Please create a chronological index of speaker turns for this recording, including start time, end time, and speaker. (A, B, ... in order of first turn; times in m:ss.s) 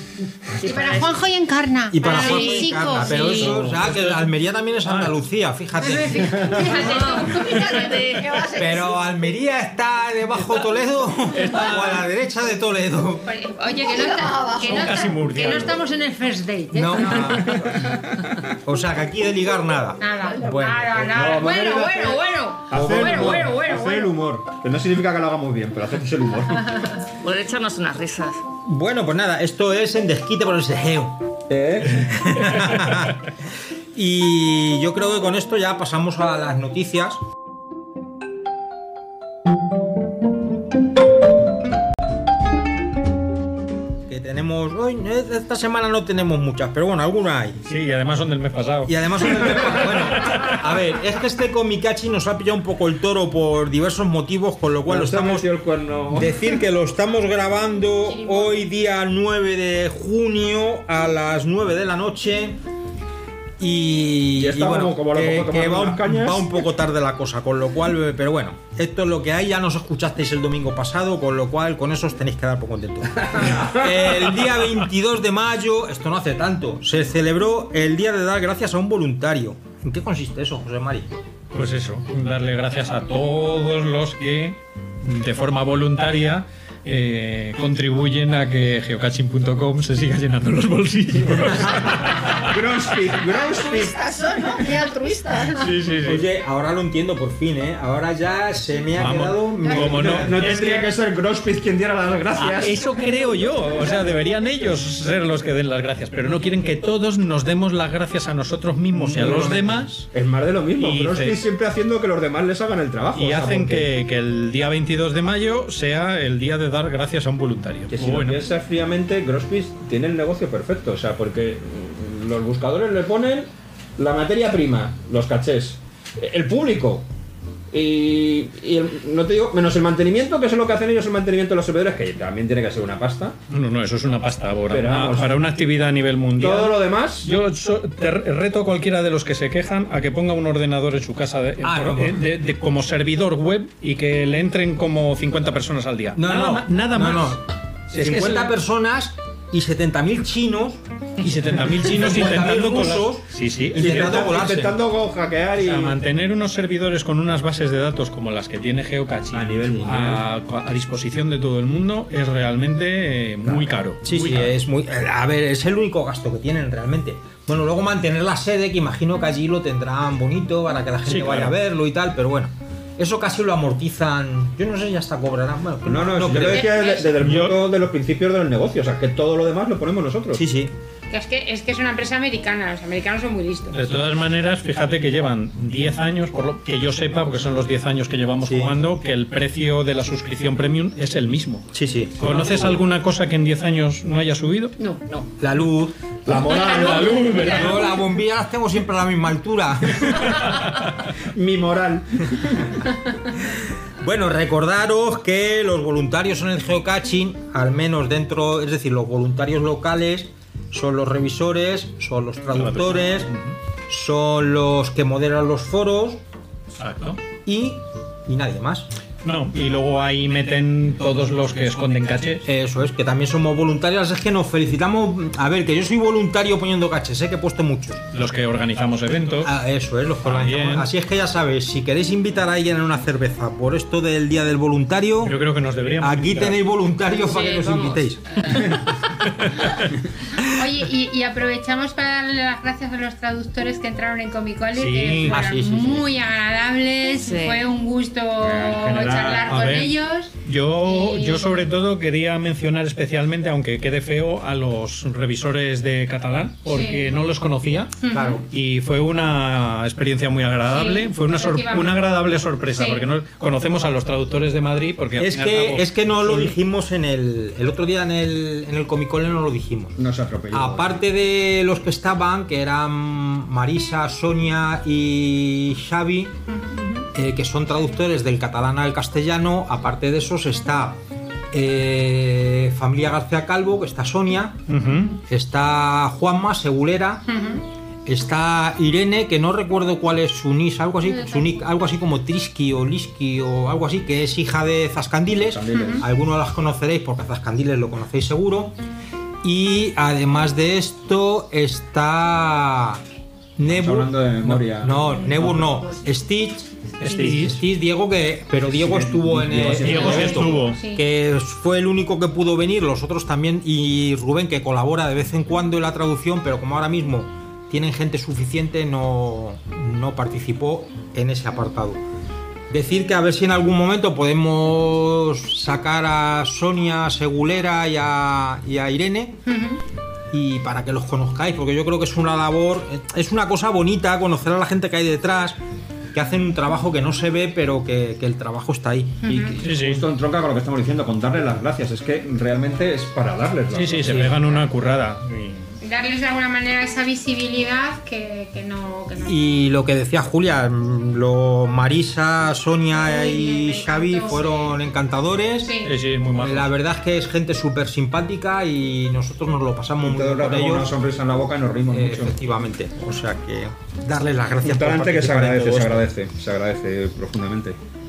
0:00.6-0:01.2 A
0:00.6-0:03.6 B
0:01.9-0:06.8 C
0:02.0-0:03.4 A
0:03.2-0:04.3 D
0:04.8-0:05.1 D
0:05.8-0:07.8 B
0:06.6-0:09.0 E
0:06.8-0:08.4 A
0:08.6-0:13.3 C
0:11.3-0:12.1 D
0:13.2-0:17.9 B
0:13.8-0:14.9 E
0:14.6-0:15.8 D
0:16.7-0:17.7 C
0:17.2-0:18.5 F
0:18.6-0:21.2 C
0:20.0-0:24.2 B
0:21.0-0:27.0 F
0:22.7-0:23.3 C
0:27.2-0:28.4 A
0:28.6-0:31.3 C
0:31.5-0:32.4 F
0:32.0-0:33.2 C
0:33.9-0:37.2 C
0:44.1-0:47.6 C
0:47.6-0:50.6 D
0:48.9-0:55.5 C
0:54.9-0:56.4 F
0:56.1-1:02.6 C
0:58.0-0:58.6 B
1:03.6-1:21.1 C
1:04.4-1:06.6 F
1:13.3-1:13.8 F
1:21.5-1:32.5 D
1:32.0-1:34.1 F
1:33.2-1:35.7 E
1:35.5-1:36.3 D
1:36.0-1:40.5 C
1:39.0-1:40.9 D
1:39.7-1:42.8 F
1:42.4-1:50.1 D
1:48.9-1:49.9 C
1:50.1-1:53.9 F
1:50.8-1:51.4 D
1:53.2-1:58.4 D
1:57.9-2:07.1 F
2:07.7-2:13.4 F
2:13.5-2:28.5 D
2:14.7-2:15.4 F
2:16.4-2:17.3 F
2:21.6-2:22.3 C
2:26.2-2:30.8 C
2:31.2-2:34.2 D
2:31.7-2:34.8 C
2:33.8-2:36.0 F
2:35.6-2:44.5 D
2:39.3-2:40.2 F
2:44.0-2:56.7 C
2:51.1-2:51.5 D
2:55.8-3:00.4 F
2:56.4-2:57.1 B
2:57.2-2:57.6 D
3:00.3-3:00.7 C
3:01.1-3:03.8 B
3:03.7-3:14.8 D
3:08.4-3:08.8 C
3:11.7-3:12.8 C
3:14.8-3:15.0 B
3:15.4-3:16.0 C
3:16.3-3:17.5 F
3:16.3-3:18.0 D
3:16.5-3:17.6 B
3:17.4-3:20.4 C
3:21.3-3:22.8 F
3:23.5-3:33.3 C
3:32.5-3:33.6 D
3:33.9-3:36.2 C
3:36.8-3:37.2 D
3:37.4-3:38.9 C
3:39.2-3:42.4 D
3:42.4-3:48.0 C
3:48.1-3:49.5 D
3:49.4-3:55.4 C
3:50.2-3:50.9 D
3:55.2-3:56.6 D
3:56.0-3:58.2 C
3:57.2-3:58.1 A
3:59.2-3:59.9 D
4:00.4-4:10.3 B
4:04.8-4:05.4 D
4:05.2-4:06.1 C
4:07.2-4:07.6 A
4:08.4-4:09.5 F
4:09.4-4:26.5 D
4:10.8-4:11.7 B
4:16.7-4:17.1 B
4:18.0-4:18.4 B
4:18.1-4:18.4 C
4:20.7-4:23.0 B
4:25.2-4:30.0 C
4:30.0-4:31.0 F
4:30.5-4:36.4 C
4:36.5-4:37.0 B
4:37.1-4:41.0 C
4:41.5-4:44.6 C
4:44.7-4:45.2 D
4:45.3-4:47.2 C
4:47.3-4:47.6 B
4:48.1-4:58.8 C
4:51.0-4:51.6 B
4:55.4-4:56.1 F
4:55.7-4:56.0 B
4:59.4-5:03.0 C
5:03.6-5:22.0 C
5:03.6-5:05.8 F
5:04.4-5:04.7 D
5:07.0-5:07.6 D
5:07.1-5:07.4 F
5:08.7-5:10.6 F
5:09.7-5:10.8 D
5:09.9-5:11.0 B
5:22.7-5:29.4 C
5:29.5-5:29.8 B
5:30.3-5:35.6 C
5:36.1-5:39.2 C
5:39.2-5:39.5 B
5:39.2-5:44.3 F
5:39.6-5:40.0 D
5:43.7-5:45.7 D
5:44.0-5:44.4 C
5:45.8-5:49.4 B
5:49.2-5:55.8 C
5:52.9-5:54.8 B
5:55.6-5:56.0 B
5:55.8-5:56.7 D
5:56.3-6:00.9 C
6:00.0-6:02.4 F
6:01.9-6:06.0 C
6:04.6-6:07.8 F